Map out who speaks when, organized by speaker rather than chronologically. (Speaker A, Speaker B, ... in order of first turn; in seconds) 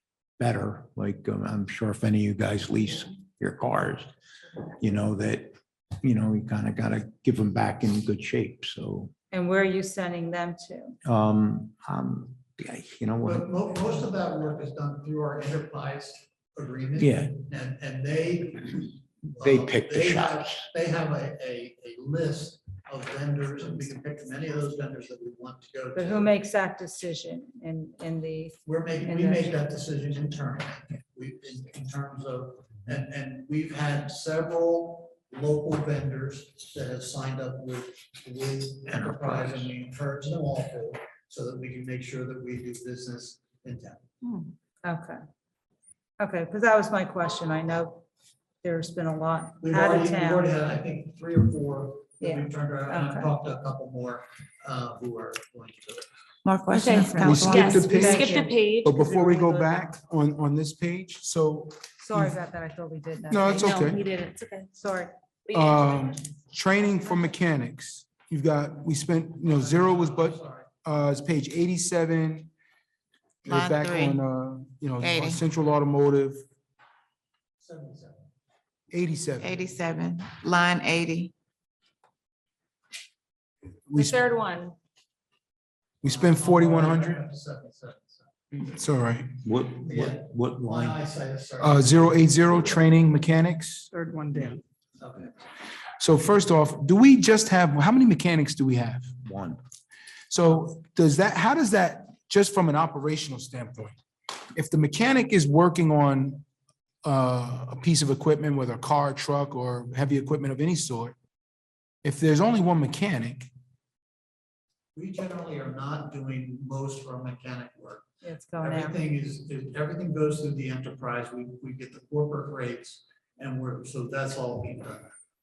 Speaker A: 0.4-4.1, 4.8-9.1, 11.0-13.5, 17.0-17.3, 19.4-20.6, 38.9-39.7, 89.4-91.0, 99.2-99.6
Speaker B: 9.3-11.0, 25.9-29.6, 44.8-45.2, 46.2-48.0, 48.6-50.5, 52.2-53.3, 56.9-59.9, 62.0-63.8, 64.7-65.1, 118.2-119.0
Speaker C: 13.2-26.4, 28.6-44.0, 49.6-56.0, 69.4-70.7, 77.6-78.2, 86.0-88.3, 89.8-92.2, 95.0-95.3, 114.9-125.1
Speaker D: 56.4-58.1, 73.5-74.2, 75.0-75.4, 79.4-81.3
Speaker E: 56.7-58.9, 63.5-64.7, 65.5-66.1, 83.9-84.7
Speaker F: 57.2-62.3, 63.3-64.0, 65.5-72.5, 73.4-76.4, 78.9-79.5, 83.9-84.3, 86.0-87.2, 88.5-89.3, 91.6-94.5, 96.0-99.1, 100.3-103.9, 104.5-106.4, 107.0-111.2, 112.0-113.5